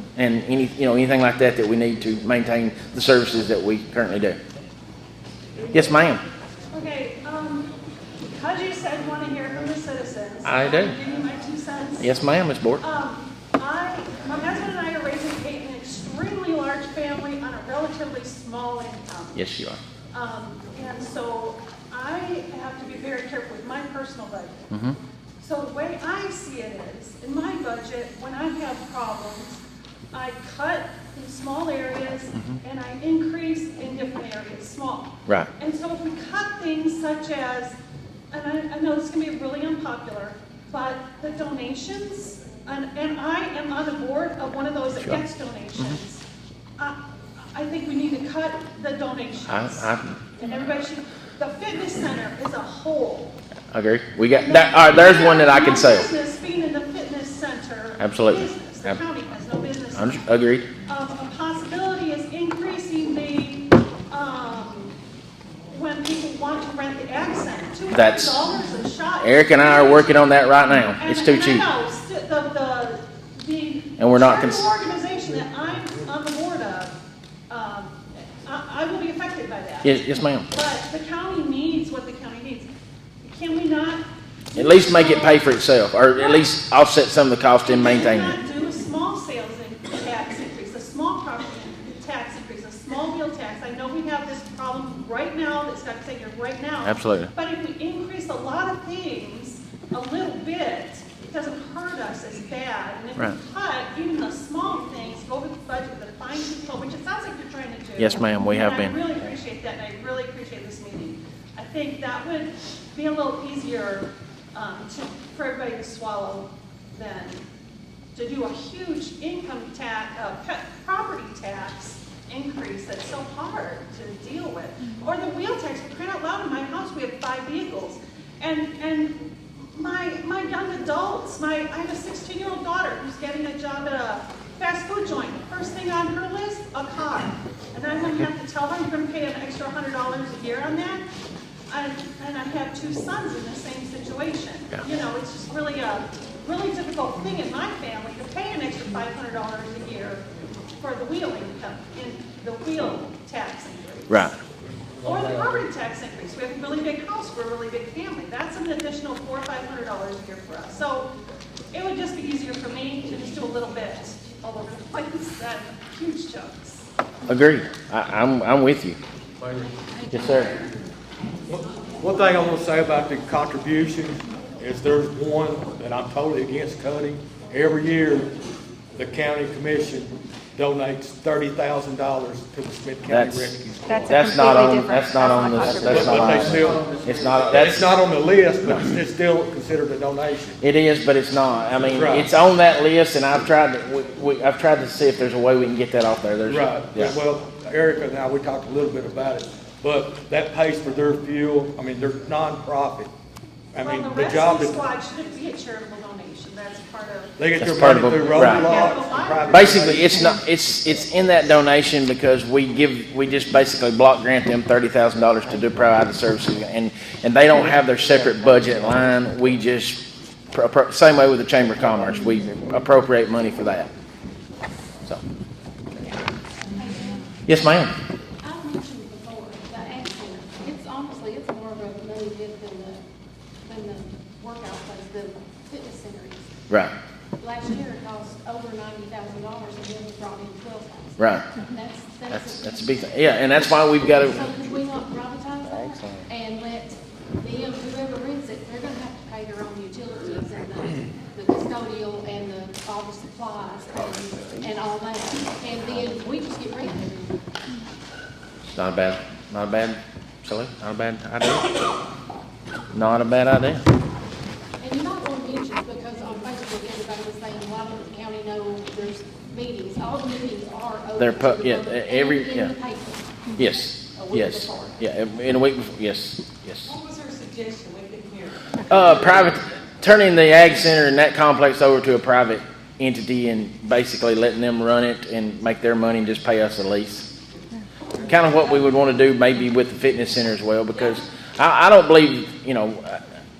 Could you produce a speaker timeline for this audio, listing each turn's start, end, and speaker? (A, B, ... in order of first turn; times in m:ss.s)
0:00.2-0:04.4 A
0:05.7-0:06.2 A
0:06.7-0:07.7 B
0:08.2-0:12.2 B
0:10.4-0:11.0 A
0:12.0-0:12.8 A
0:12.8-0:19.4 B
0:19.3-0:19.8 A
0:20.1-0:24.6 B
0:24.7-0:25.0 A
0:25.4-0:29.6 B
0:30.1-0:37.8 B
0:38.3-0:46.2 B
0:47.5-0:53.3 B
0:49.5-0:50.2 A
0:53.7-0:56.1 A
0:54.3-1:00.2 B
0:58.0-0:59.0 A
0:59.9-1:00.7 A
1:00.8-1:04.9 B
1:05.7-1:10.3 B
1:07.9-1:08.4 A
1:09.2-1:11.7 A
1:10.9-1:17.0 B
1:14.0-1:14.6 A
1:17.5-1:22.7 B
1:19.8-1:20.5 A
1:23.2-1:25.5 B
1:24.6-1:28.4 A
1:26.1-1:26.5 B
1:27.6-1:57.4 B
1:36.8-1:37.3 A
1:48.0-1:49.0 A
1:58.1-2:21.1 B
2:21.7-2:30.2 B
2:30.8-2:34.3 B
2:34.1-2:34.3 A
2:35.0-2:41.1 B
2:41.7-2:46.9 B
2:47.3-2:49.0 A
2:49.4-2:49.7 C
2:49.8-2:50.7 D
2:50.1-2:50.5 A
2:51.5-2:58.3 C
2:58.9-3:04.2 C
3:03.1-3:07.9 A
3:03.9-3:06.7 E
3:05.8-3:10.6 C
3:10.6-3:17.2 A
3:11.9-3:12.3 C
3:16.4-3:23.1 C
3:23.7-3:24.8 C
3:23.8-3:30.3 B
3:27.4-3:30.2 C
3:27.6-3:28.7 A
3:29.5-3:43.9 A
3:46.8-3:47.2 D
3:47.4-3:47.9 A
3:48.4-3:53.0 D
3:53.6-3:56.5 D
3:57.4-4:03.0 D
4:01.2-4:01.4 A
4:02.3-4:04.5 A
4:04.0-4:17.4 D
4:18.7-4:21.6 A
4:22.9-4:23.8 A
4:24.8-4:33.4 D
4:31.2-4:32.7 A
4:33.6-4:37.0 A
4:34.0-4:35.0 D
4:37.0-4:38.5 E
4:38.9-4:47.3 A
4:48.2-4:53.2 A